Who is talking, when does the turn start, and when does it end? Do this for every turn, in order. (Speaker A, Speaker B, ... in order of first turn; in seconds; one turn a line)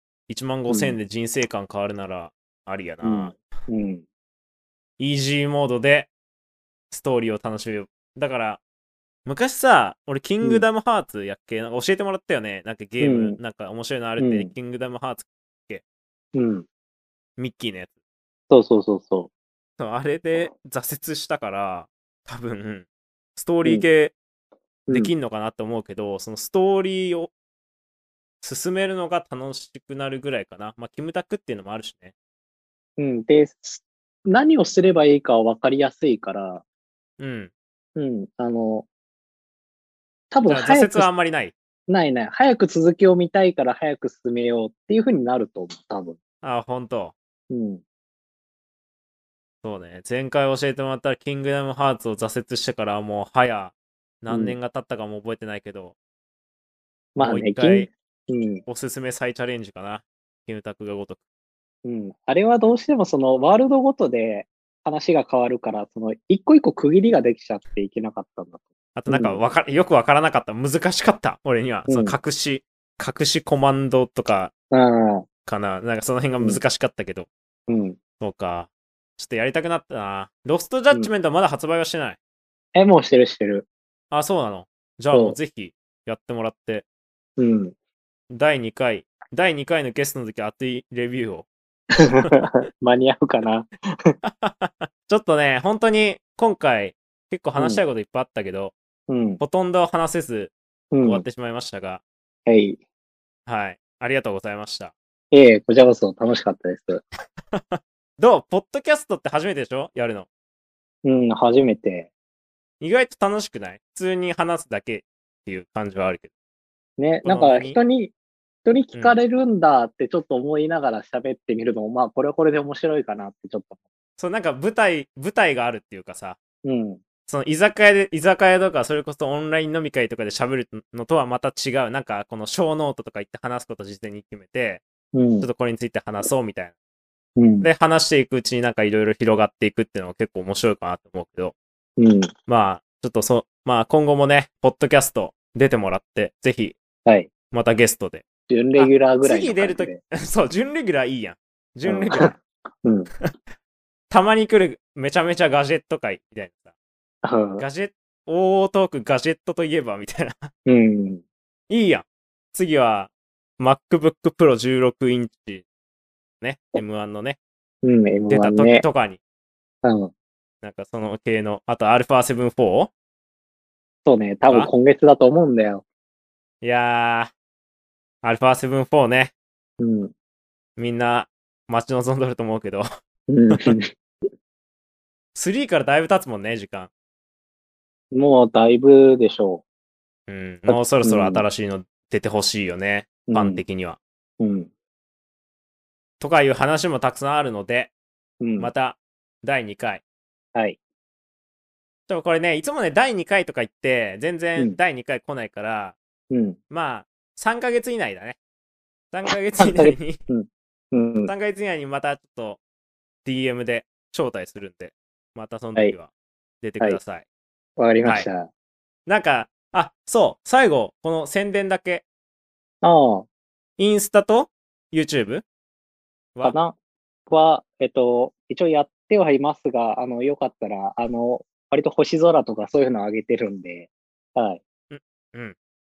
Speaker A: 0.3-3.4
Speaker B: 0.7-1.0
Speaker B: 3.0-4.0
Speaker A: 5.0-6.1
Speaker A: 6.9-8.6
Speaker A: 9.3-15.8
Speaker B: 10.4-10.7
Speaker B: 13.0-13.4
Speaker B: 14.2-14.5
Speaker B: 16.3-16.7
Speaker A: 17.4-17.9
Speaker B: 18.5-19.3
Speaker A: 19.8-24.1
Speaker B: 24.9-25.1
Speaker A: 24.9-27.3
Speaker A: 28.4-32.1
Speaker B: 33.0-36.6
Speaker A: 37.2-37.5
Speaker B: 38.0-38.9
Speaker B: 40.3-41.1
Speaker A: 40.5-41.5
Speaker B: 41.9-46.2
Speaker A: 46.4-47.1
Speaker B: 47.5-47.8
Speaker A: 49.6-56.0
Speaker B: 54.3-54.6
Speaker A: 57.2-57.9
Speaker B: 57.2-58.6
Speaker A: 58.7-61.2
Speaker B: 61.9-69.4
Speaker A: 69.0-74.5
Speaker B: 71.9-72.2
Speaker B: 74.7-75.3
Speaker A: 75.5-77.3
Speaker B: 77.7-78.0
Speaker A: 78.2-82.2
Speaker B: 82.8-83.7
Speaker A: 84.1-86.8
Speaker B: 85.1-85.4
Speaker B: 87.4-87.8
Speaker A: 88.3-91.5
Speaker B: 92.0-94.2
Speaker A: 94.2-98.7
Speaker B: 97.6-97.8
Speaker B: 99.1-99.4
Speaker A: 99.4-102.0
Speaker B: 100.9-101.2
Speaker B: 102.5-102.8
Speaker A: 103.5-104.9
Speaker B: 105.3-107.0
Speaker A: 107.5-110.3
Speaker B: 111.0-112.1
Speaker A: 112.8-116.3
Speaker B: 117.0-118.1
Speaker A: 117.2-117.8
Speaker B: 118.7-123.8
Speaker A: 124.2-126.4
Speaker B: 126.6-127.0
Speaker A: 127.3-134.8
Speaker B: 135.1-135.5
Speaker A: 135.4-136.7
Speaker B: 137.4-137.7
Speaker A: 137.6-141.5
Speaker B: 142.0-142.3
Speaker A: 142.5-146.8
Speaker B: 147.1-147.3
Speaker A: 147.5-148.2
Speaker B: 148.5-150.0
Speaker A: 148.8-152.4
Speaker B: 151.9-153.1
Speaker A: 154.1-156.7
Speaker B: 157.2-157.7
Speaker A: 157.6-160.5
Speaker B: 160.7-161.2
Speaker A: 161.7-165.7
Speaker A: 166.4-167.4
Speaker B: 167.8-168.9
Speaker A: 168.3-169.2
Speaker B: 169.8-170.1
Speaker A: 170.6-172.9
Speaker B: 174.1-175.8
Speaker A: 176.6-177.3
Speaker A: 178.2-179.3
Speaker B: 179.8-180.1
Speaker A: 180.8-182.8
Speaker B: 183.3-184.3
Speaker A: 185.3-186.9
Speaker B: 188.1-189.6
Speaker A: 190.3-194.0
Speaker B: 190.7-191.4
Speaker B: 193.3-193.6
Speaker B: 194.4-194.7
Speaker A: 196.2-197.9
Speaker B: 198.4-198.7
Speaker A: 198.6-200.0
Speaker A: 202.1-206.0
Speaker B: 206.3-206.6
Speaker A: 206.7-208.4
Speaker A: 209.1-210.2
Speaker B: 209.6-211.3
Speaker A: 211.3-212.6
Speaker A: 213.2-217.2
Speaker B: 217.8-218.5
Speaker A: 219.1-222.0
Speaker B: 222.8-223.3
Speaker A: 223.8-225.4
Speaker B: 226.4-226.8
Speaker B: 227.3-234.6
Speaker A: 234.9-235.6